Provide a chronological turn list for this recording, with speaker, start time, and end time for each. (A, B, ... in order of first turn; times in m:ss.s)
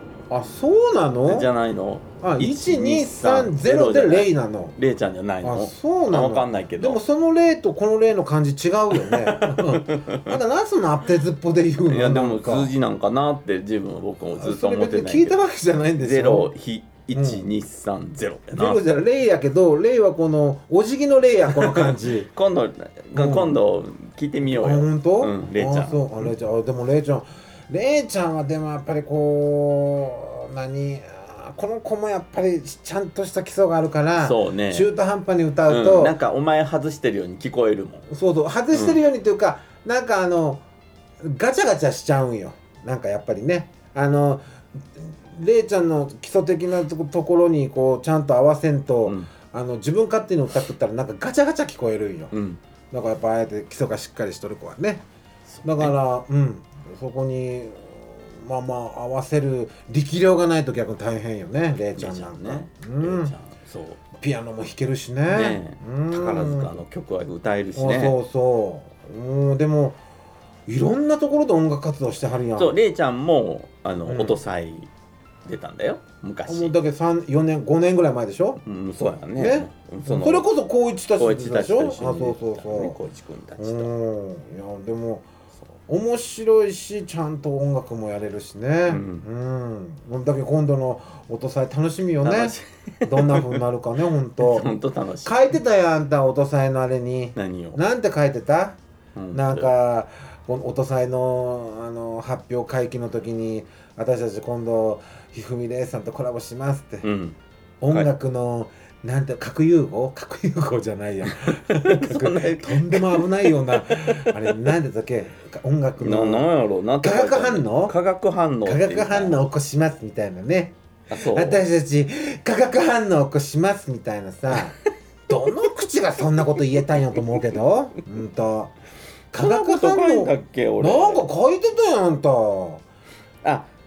0:00.3-0:01.5 A
0:01.2-0:07.0 B
0:02.2-0:04.8 A
0:05.4-0:12.7 A
0:08.9-0:10.4 B
0:11.9-0:15.4 B
0:14.4-0:16.5 A
0:16.0-0:18.8 B
0:17.1-0:17.5 A
0:18.5-0:22.3 A
0:21.5-0:26.3 B
0:23.1-0:23.6 A
0:24.5-0:36.1 A
0:34.2-0:34.9 B
0:35.7-0:38.0 B
0:38.1-0:40.6 A
0:41.2-0:44.4 A
0:45.0-0:52.3 A
0:49.0-0:49.3 B
0:52.3-0:52.6 B
0:52.9-0:55.0 A
0:55.5-0:55.9 B
0:55.6-1:03.3 A
1:02.0-1:04.0 B
1:04.1-1:06.8 A
1:05.3-1:08.2 B
1:07.8-1:10.0 A
1:10.7-1:12.7 A
1:12.6-1:14.9 B
1:14.0-1:14.4 A
1:15.4-1:16.7 B
1:16.4-1:18.6 A
1:18.6-1:20.5 B
1:19.4-1:23.0 A
1:21.2-1:23.9 B
1:23.6-1:25.2 A
1:25.9-1:34.7 A
1:28.9-1:29.2 B
1:32.2-1:33.6 B
1:34.4-1:35.4 B
1:35.2-1:38.8 A
1:37.4-1:37.8 B
1:39.1-1:39.7 B
1:39.3-1:47.0 A
1:47.0-1:47.4 B
1:47.8-1:56.4 A
1:51.2-1:54.7 B
1:56.0-1:59.4 B
1:57.0-1:58.0 A
1:58.6-2:08.7 A
2:01.1-2:01.6 B
2:09.3-2:12.8 A
2:09.3-2:11.2 B
2:13.4-2:13.7 B